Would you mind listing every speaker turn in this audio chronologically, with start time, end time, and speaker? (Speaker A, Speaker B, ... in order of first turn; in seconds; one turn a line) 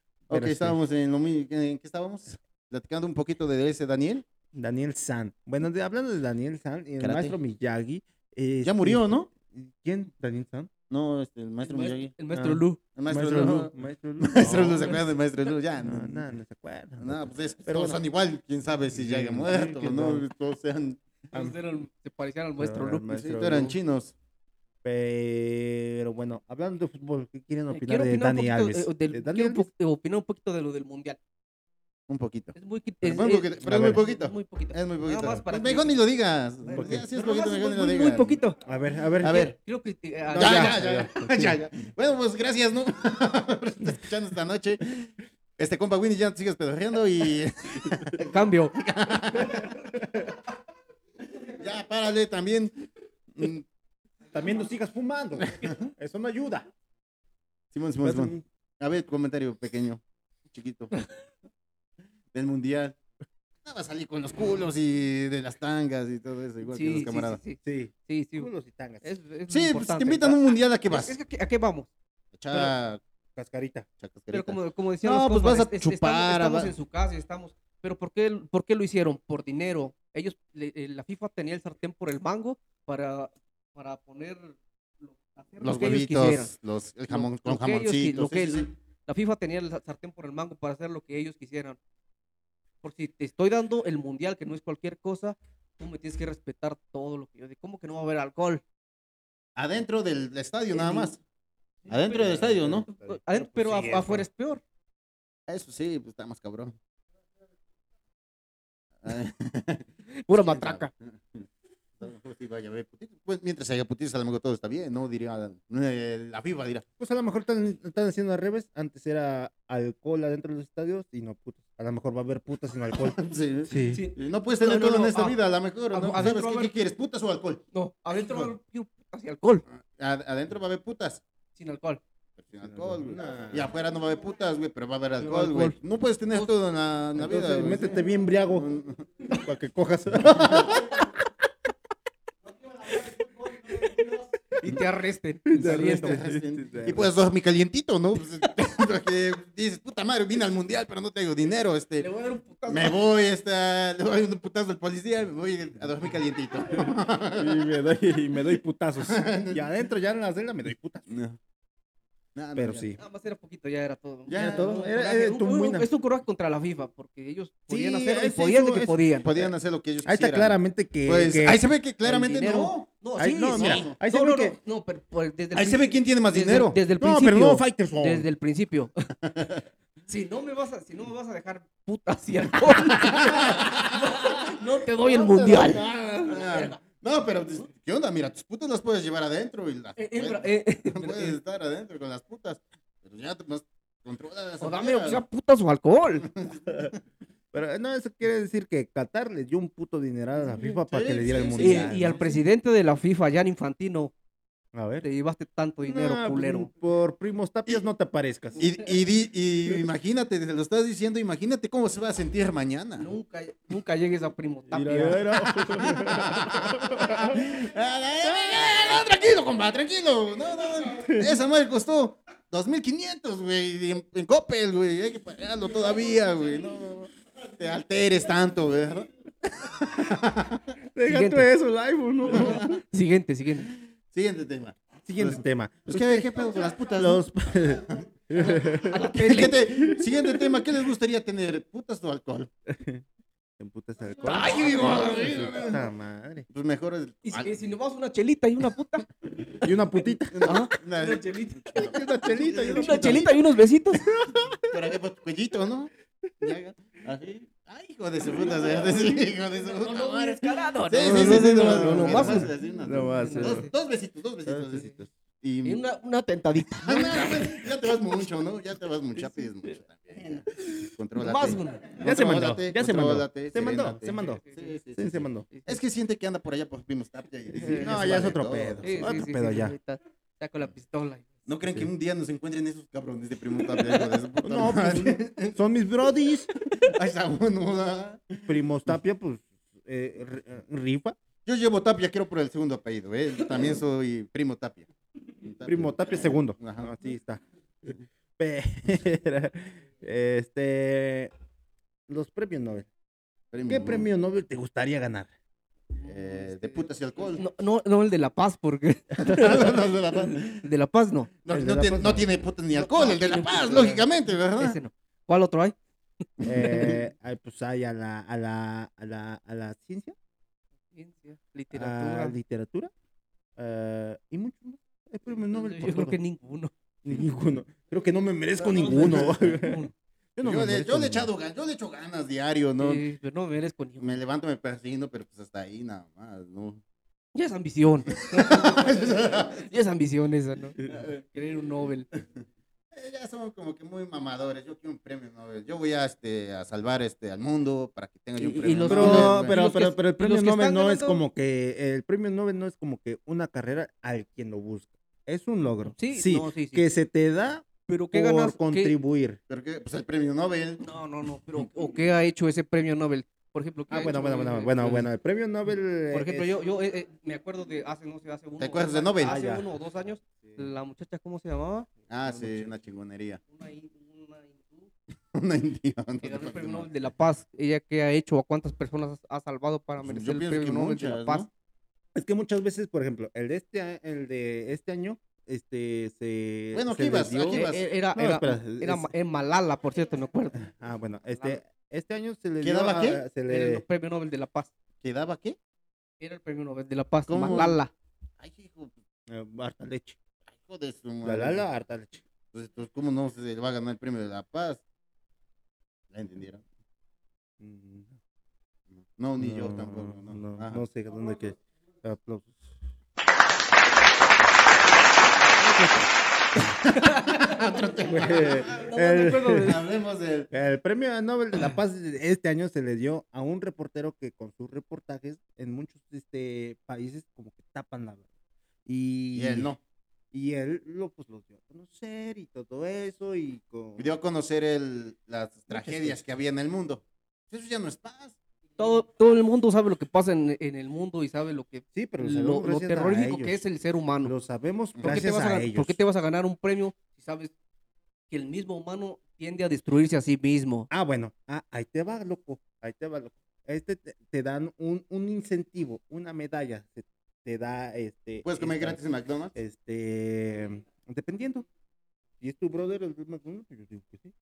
Speaker A: 0.3-4.2
Speaker B: 0.3-0.8
Speaker B: 4.5-10.7
Speaker A: 7.0-7.3
Speaker A: 8.6-9.3
Speaker A: 10.9-12.1
Speaker C: 11.6-12.8
Speaker B: 12.3-15.0
Speaker A: 12.9-16.2
Speaker B: 15.8-18.0
Speaker A: 17.0-21.0
Speaker B: 18.9-20.3
Speaker C: 21.3-23.1
Speaker B: 22.6-23.8
Speaker A: 23.1-24.1
Speaker B: 24.8-29.7
Speaker C: 27.7-31.2
Speaker A: 32.1-38.4
Speaker C: 32.5-36.0
Speaker B: 33.6-34.0
Speaker C: 36.6-38.6
Speaker B: 36.7-37.0
Speaker B: 38.6-39.5
Speaker A: 39.2-39.5
Speaker C: 39.5-41.0
Speaker A: 40.3-49.7
Speaker B: 40.3-41.6
Speaker C: 48.2-48.7
Speaker A: 51.4-53.6
Speaker B: 54.3-56.7
Speaker A: 55.4-55.8
Speaker A: 57.7-60.9
Speaker B: 58.0-58.4
Speaker A: 62.3-63.0
Speaker A: 63.6-67.4
Speaker C: 66.6-68.5
Speaker B: 67.6-69.1
Speaker C: 69.0-71.9
Speaker A: 69.5-71.2
Speaker A: 72.3-73.0
Speaker B: 73.3-73.9
Speaker A: 74.0-76.7
Speaker C: 74.3-86.5
Speaker A: 85.6-88.7
Speaker C: 87.1-91.8
Speaker C: 92.8-98.6
Speaker A: 99.5-101.2
Speaker C: 100.7-101.1
Speaker A: 101.9-102.8
Speaker C: 101.9-104.6
Speaker B: 102.1-104.3
Speaker A: 105.5-106.8
Speaker A: 109.0-111.5
Speaker C: 110.1-110.9
Speaker A: 112.0-116.8
Speaker B: 117.0-124.0
Speaker A: 123.0-127.6
Speaker C: 123.9-125.4
Speaker C: 125.9-126.7
Speaker C: 127.7-129.6
Speaker A: 129.7-131.2
Speaker C: 131.5-132.0
Speaker A: 132.4-138.0
Speaker B: 132.6-133.7
Speaker C: 135.2-135.8
Speaker B: 137.1-141.0
Speaker A: 138.6-138.8
Speaker A: 140.4-140.6
Speaker C: 143.6-146.2
Speaker B: 145.5-147.1
Speaker A: 145.6-152.1
Speaker C: 152.0-153.0
Speaker A: 152.7-157.6
Speaker B: 157.3-161.1
Speaker A: 159.1-159.6
Speaker A: 161.1-161.4
Speaker A: 162.3-162.9
Speaker B: 162.5-163.0
Speaker C: 162.9-169.4
Speaker A: 164.3-164.8
Speaker B: 164.3-165.9
Speaker B: 167.7-169.4
Speaker A: 169.2-172.9
Speaker B: 170.0-171.6
Speaker C: 172.0-179.1
Speaker B: 173.2-174.6
Speaker A: 173.5-174.0
Speaker A: 175.5-176.8
Speaker B: 177.0-178.3
Speaker C: 180.1-186.8
Speaker A: 182.7-195.2
Speaker C: 190.0-191.4
Speaker C: 194.6-196.3
Speaker A: 196.4-196.8
Speaker B: 197.5-202.2
Speaker A: 200.6-202.4
Speaker C: 201.5-204.1
Speaker B: 204.7-205.1
Speaker C: 205.0-206.7
Speaker B: 205.8-208.7
Speaker A: 208.6-213.1
Speaker C: 213.0-215.8
Speaker B: 214.7-217.4
Speaker A: 215.8-230.7
Speaker B: 230.9-232.7
Speaker C: 231.0-231.5
Speaker C: 232.3-233.7
Speaker A: 232.3-232.8
Speaker A: 234.1-237.2
Speaker B: 235.0-236.3
Speaker B: 237.0-239.1
Speaker C: 238.3-239.7
Speaker A: 239.1-242.5
Speaker B: 239.9-240.4
Speaker B: 242.7-243.0
Speaker B: 243.6-246.5
Speaker A: 244.2-245.8
Speaker C: 244.4-245.5
Speaker A: 246.5-247.5
Speaker C: 247.2-249.1
Speaker B: 249.6-250.7
Speaker A: 250.3-253.4
Speaker C: 250.4-252.0
Speaker B: 251.8-253.3
Speaker C: 252.6-254.1
Speaker B: 254.1-254.7
Speaker A: 254.7-265.8
Speaker C: 259.8-262.5
Speaker B: 261.0-263.7
Speaker C: 263.1-263.7
Speaker B: 264.5-265.1
Speaker C: 265.6-267.7
Speaker A: 266.8-279.2
Speaker C: 271.1-271.9
Speaker B: 272.0-275.5
Speaker C: 274.2-274.7
Speaker B: 277.5-279.7
Speaker C: 277.6-278.1
Speaker C: 278.8-281.3
Speaker A: 281.4-285.6
Speaker C: 283.8-284.1
Speaker B: 284.4-286.5
Speaker A: 286.8-288.5
Speaker B: 288.4-291.1
Speaker A: 291.4-294.9
Speaker A: 295.4-296.9
Speaker B: 295.6-301.3
Speaker B: 302.1-302.9
Speaker A: 303.5-304.1
Speaker B: 303.7-305.3
Speaker C: 306.0-309.8
Speaker A: 306.0-307.4
Speaker A: 309.2-310.6
Speaker C: 310.5-311.3
Speaker A: 311.4-314.8
Speaker B: 311.5-312.3
Speaker C: 312.7-315.8
Speaker B: 316.4-320.1
Speaker C: 316.5-317.0
Speaker C: 320.9-322.3
Speaker B: 321.7-322.9
Speaker B: 323.6-326.2
Speaker C: 325.5-326.7
Speaker B: 327.0-331.3
Speaker C: 328.6-329.9
Speaker A: 330.4-333.0
Speaker C: 332.8-334.2
Speaker A: 334.0-336.8
Speaker C: 337.3-342.1
Speaker A: 338.1-339.6
Speaker A: 342.9-349.5
Speaker C: 348.4-351.2
Speaker B: 348.9-359.4
Speaker C: 356.0-356.9
Speaker C: 357.9-358.9
Speaker A: 359.5-360.8
Speaker C: 360.8-365.1
Speaker B: 363.9-366.5
Speaker C: 366.1-372.7
Speaker A: 368.6-369.4
Speaker B: 369.2-369.7
Speaker A: 372.1-373.4
Speaker C: 373.5-374.9
Speaker A: 375.3-376.9
Speaker C: 376.2-381.5
Speaker A: 380.0-381.5
Speaker B: 382.1-389.1
Speaker A: 386.7-387.8
Speaker C: 387.5-390.7
Speaker B: 390.6-393.8
Speaker A: 392.6-393.3
Speaker C: 393.4-394.7
Speaker A: 395.0-395.6
Speaker C: 396.2-397.9
Speaker A: 397.3-397.8
Speaker A: 398.4-398.9
Speaker B: 399.3-400.2
Speaker A: 400.5-401.6
Speaker B: 401.2-402.2
Speaker A: 402.5-404.8
Speaker A: 406.1-406.6
Speaker B: 407.6-408.2
Speaker A: 408.9-410.8
Speaker B: 409.4-412.7
Speaker C: 415.6-416.1
Speaker C: 416.9-417.5
Speaker A: 417.0-418.8
Speaker B: 418.0-419.8
Speaker C: 418.6-419.9
Speaker A: 419.6-420.5
Speaker B: 420.5-428.2
Speaker B: 428.9-429.7
Speaker A: 429.3-429.8
Speaker B: 430.3-434.1
Speaker A: 434.0-438.3
Speaker B: 435.7-436.2
Speaker C: 438.8-444.3
Speaker B: 441.9-443.6
Speaker B: 444.2-446.0
Speaker C: 445.0-447.5
Speaker C: 448.3-450.9
Speaker B: 450.9-459.0
Speaker A: 458.4-459.5
Speaker B: 459.5-461.6
Speaker B: 462.4-464.3